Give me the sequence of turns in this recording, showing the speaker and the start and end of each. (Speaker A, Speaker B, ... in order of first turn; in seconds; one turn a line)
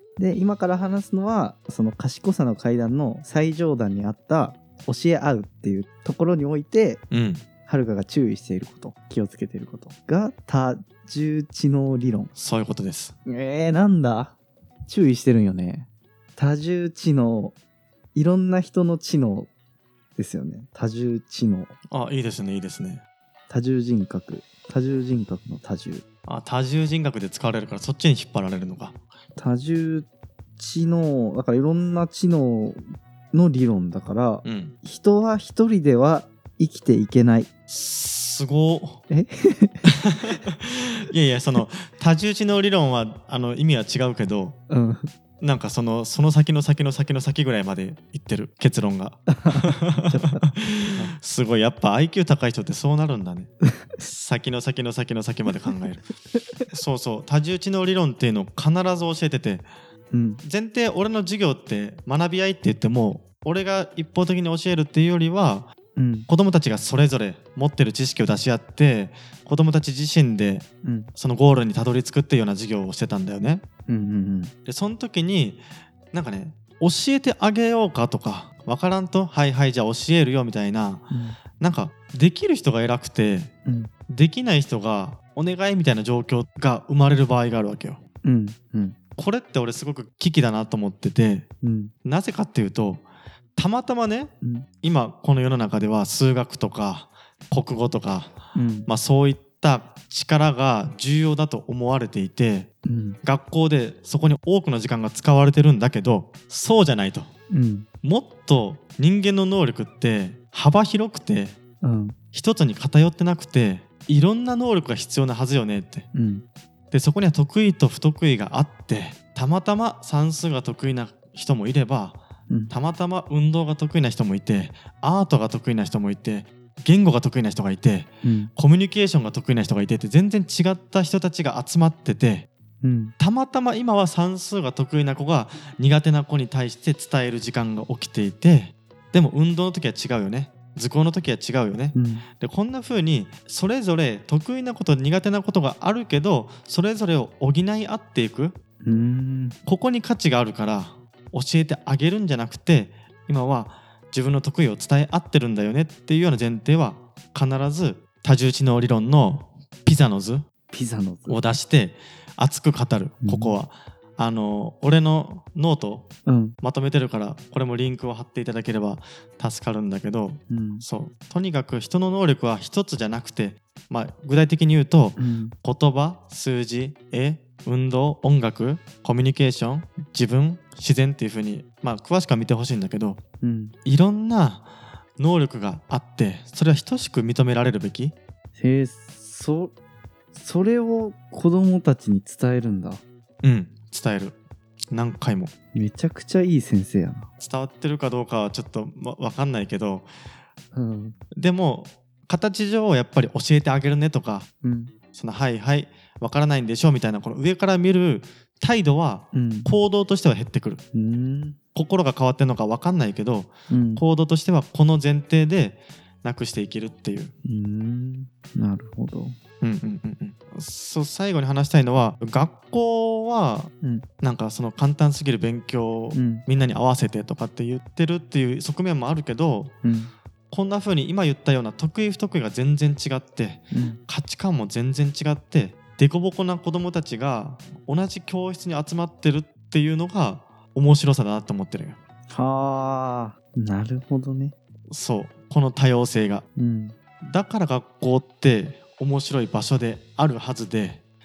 Speaker A: 0.2-7.0
Speaker B: 7.1-7.4
Speaker A: 7.7-12.3
Speaker B: 12.4-13.2
Speaker A: 13.2-14.3
Speaker A: 14.9-17.6
Speaker A: 18.1-19.5
Speaker A: 20.2-21.7
Speaker B: 21.9-23.0
Speaker A: 23.5-26.0
Speaker B: 26.2-29.0
Speaker A: 29.4-37.5
Speaker B: 34.5-34.8
Speaker B: 37.7-39.0
Speaker A: 39.1-39.9
Speaker B: 39.9-44.6
Speaker A: 44.7-45.1
Speaker B: 45.4-56.1
Speaker A: 49.3-51.2
Speaker B: 56.7-59.7
Speaker A: 60.1-60.4
Speaker B: 60.4-65.7
Speaker A: 66.0-66.3
Speaker B: 66.3-73.7
Speaker A: 70.8-71.1
Speaker A: 73.9-74.5
Speaker B: 74.7-83.5
Speaker A: 81.1-81.4
Speaker A: 83.7-83.9
Speaker B: 84.1-88.0
Speaker A: 88.2-89.0
Speaker B: 89.2-91.5
Speaker A: 91.6-91.9
Speaker B: 92.0-93.0
Speaker B: 93.5-102.7
Speaker A: 94.4-94.7
Speaker A: 98.5-98.9
Speaker A: 102.8-103.2
Speaker B: 103.2-107.3
Speaker A: 107.5-107.9
Speaker B: 108.0-111.6
Speaker A: 111.8-112.2
Speaker B: 112.3-116.1
Speaker A: 116.1-116.5
Speaker B: 116.9-132.5
Speaker A: 128.2-128.5
Speaker A: 132.8-133.1
Speaker B: 133.2-148.6
Speaker A: 141.9-142.2
Speaker A: 148.8-149.6
Speaker B: 149.7-160.4
Speaker A: 160.7-161.4
Speaker B: 161.3-166.1
Speaker A: 163.2-163.5
Speaker A: 166.2-166.6
Speaker B: 166.6-183.2
Speaker A: 170.5-170.8
Speaker A: 175.2-175.5
Speaker A: 183.4-183.8
Speaker B: 183.8-188.2
Speaker A: 188.6-189.7
Speaker A: 190.3-193.0
Speaker B: 193.4-194.4
Speaker B: 194.9-195.5
Speaker A: 195.7-197.3
Speaker B: 197.4-200.1
Speaker A: 200.7-201.2
Speaker B: 201.3-204.5
Speaker A: 204.6-204.9
Speaker B: 205.1-210.8
Speaker A: 209.3-209.7
Speaker A: 210.9-211.6
Speaker B: 211.8-217.3
Speaker A: 213.7-214.0
Speaker A: 217.4-219.3
Speaker B: 219.6-229.8
Speaker A: 226.1-226.4
Speaker A: 229.8-230.1
Speaker B: 230.5-242.0
Speaker A: 233.7-234.0
Speaker A: 242.3-244.5
Speaker B: 244.9-246.4
Speaker A: 246.6-246.9
Speaker B: 247.2-251.0